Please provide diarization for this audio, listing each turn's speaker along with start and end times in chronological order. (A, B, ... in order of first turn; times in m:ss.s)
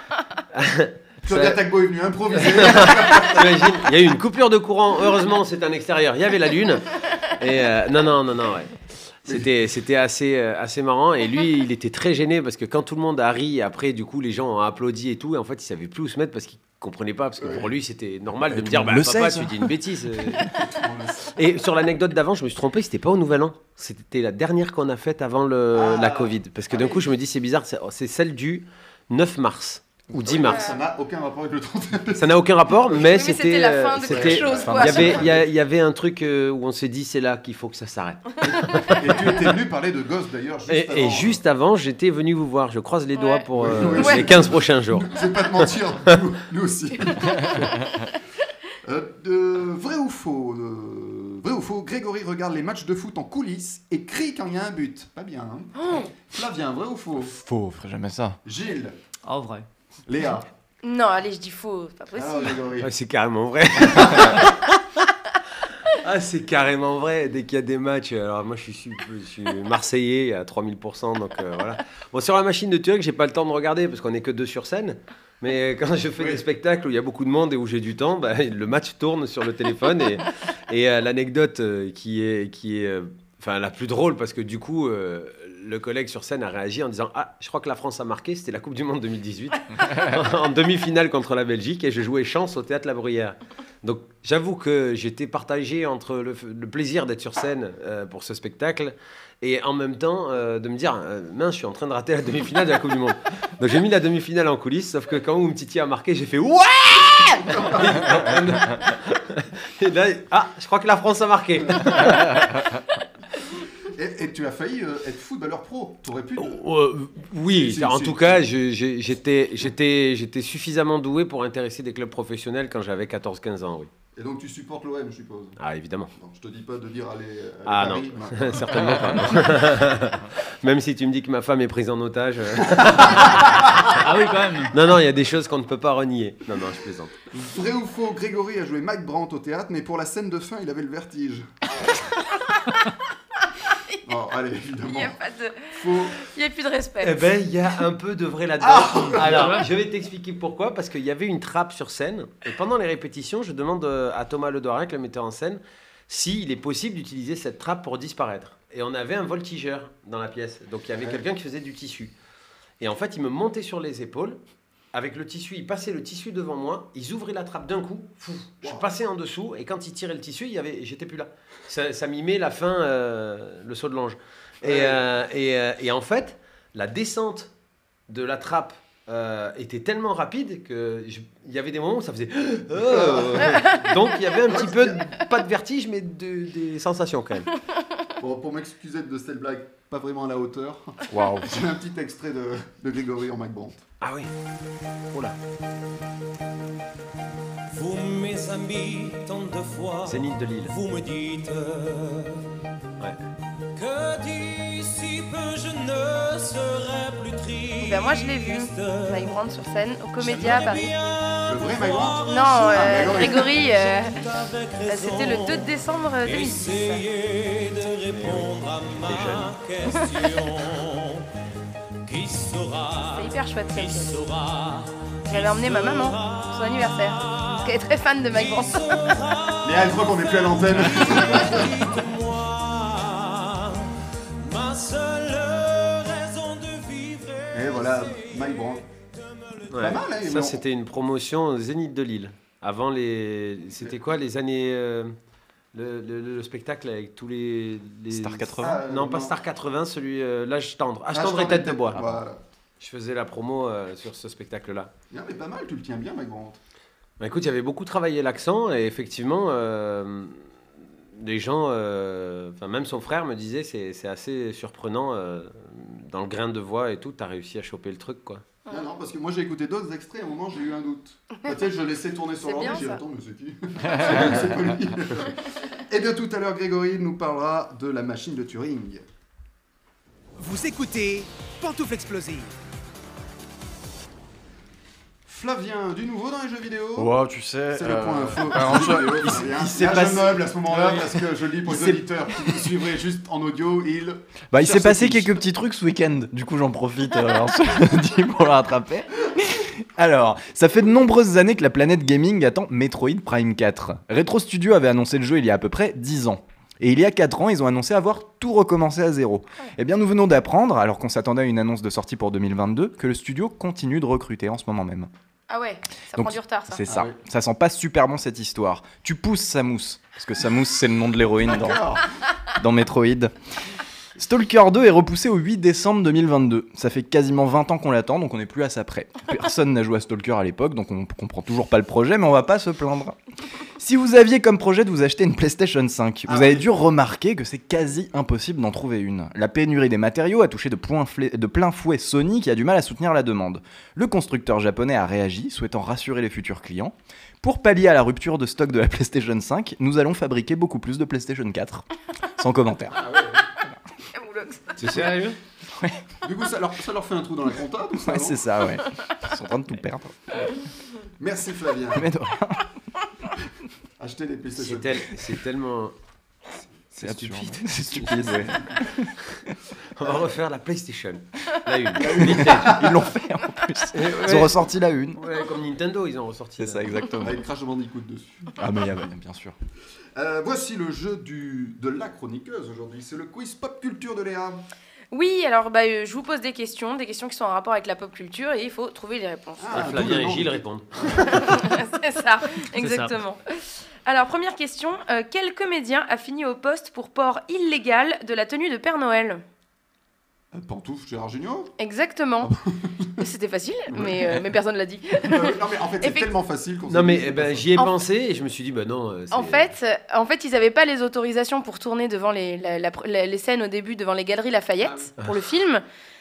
0:00.5-0:01.6 A
0:01.2-0:03.8 B
0:02.3-0:08.7 A
0:09.2-0:20.6 A
0:17.4-0:17.7 B
0:18.5-0:19.8 C
0:20.4-0:21.4 B
0:21.4-0:30.7 A
0:25.7-0:27.0 B
0:30.1-0:33.2 B
0:30.4-0:30.8 D
0:32.2-0:39.4 A
0:33.0-0:35.2 D
0:34.0-0:35.5 B
0:38.8-0:41.4 B
0:40.7-0:46.2 A
0:43.2-0:44.3 D
0:43.6-0:47.8 B
0:48.8-0:57.4 B
0:55.8-0:56.1 D
0:57.4-0:58.4 C
0:58.4-0:59.0 B
0:59.3-0:59.7 E
1:00.1-1:00.5 B
1:00.8-1:02.6 D
1:02.2-1:02.9 B
1:02.8-1:04.8 A
1:06.0-1:52.4 A
1:16.2-1:16.4 B
1:47.4-1:48.4 B
1:53.9-1:56.6 B
1:56.4-2:03.9 A
1:57.5-1:58.4 B
2:04.2-2:05.6 B
2:05.6-2:06.1 A
2:06.2-2:09.4 B
2:07.7-2:14.1 A
2:12.7-2:13.4 B
2:14.0-2:14.7 E
2:14.7-2:17.1 A
2:17.3-2:21.5 B
2:24.1-2:25.2 B
2:24.9-2:27.2 D
2:25.7-2:26.2 B
2:27.0-2:42.1 A
2:28.6-2:29.6 B
2:29.2-2:29.7 E
2:40.9-2:41.2 B
2:42.8-2:44.4 A
2:44.9-2:57.5 A
2:54.6-2:55.0 B
2:58.1-3:07.5 A
3:02.7-3:03.7 B
3:04.5-3:05.0 B
3:08.2-3:13.8 B
3:11.1-3:11.5 C
3:14.0-3:14.3 A
3:17.7-3:22.4 F
3:20.1-3:20.8 A
3:23.8-3:29.4 F
3:27.8-3:30.9 D
3:30.2-3:35.7 F
3:31.5-3:33.5 B
3:32.2-3:34.2 D
3:34.9-3:37.0 D
3:36.2-3:41.2 F
3:38.2-3:38.4 C
3:39.0-3:39.5 C
3:42.1-3:47.7 F
3:43.1-3:44.2 D
3:45.3-3:49.0 D
3:48.3-3:53.8 F
3:49.6-3:51.7 B
3:54.4-3:59.7 F
3:57.5-3:58.8 B
3:59.7-4:05.2 A
3:59.8-4:00.6 B
4:05.7-4:12.1 A
4:08.1-4:08.8 C
4:08.6-4:09.4 B
4:11.1-4:12.4 B
4:12.0-4:12.2 C
4:12.8-4:14.9 A
4:15.1-4:16.6 B
4:17.2-4:20.4 A
4:21.2-4:28.4 A
4:28.7-4:39.0 B
4:32.4-4:33.0 D
4:40.4-4:42.5 G
4:45.3-4:47.1 B
4:47.0-4:52.7 C
4:47.7-4:55.4 B
4:54.5-5:15.1 C
5:15.5-5:16.8 D
5:16.1-5:21.9 C
5:16.9-5:17.2 B
5:21.4-5:22.1 B
5:22.5-5:23.3 C
5:24.2-5:33.2 C
5:33.8-5:51.9 C
5:36.3-5:36.7 B
5:52.4-5:53.0 C
5:52.9-5:53.4 B
5:54.1-5:54.8 D
5:54.8-5:55.4 A
5:55.7-5:56.0 C
5:56.2-5:58.5 B
5:58.0-6:00.5 C
6:01.2-6:02.1 B
6:01.9-6:02.7 C
6:04.0-6:05.1 B
6:04.6-6:05.9 A
6:07.0-6:07.6 A
6:07.0-6:09.5 C
6:07.8-6:08.8 B
6:10.0-6:12.9 A
6:12.0-6:13.0 B
6:12.0-6:15.2 C
6:13.9-6:14.6 A
6:15.2-6:17.0 A
6:16.6-6:17.4 C
6:17.2-6:18.6 B
6:18.6-6:19.6 C
6:20.2-6:24.6 B
6:25.1-6:29.8 D
6:29.6-6:31.6 B
6:29.7-6:30.9 A
6:31.2-6:39.4 D
6:32.8-6:33.1 E
6:40.5-6:41.7 B
6:41.8-6:42.5 D
6:42.4-6:43.2 B
6:43.2-6:46.3 D
6:43.9-6:44.4 B
6:45.2-6:47.7 B
6:46.9-6:49.7 A
6:49.3-6:55.8 D
6:54.8-6:55.1 B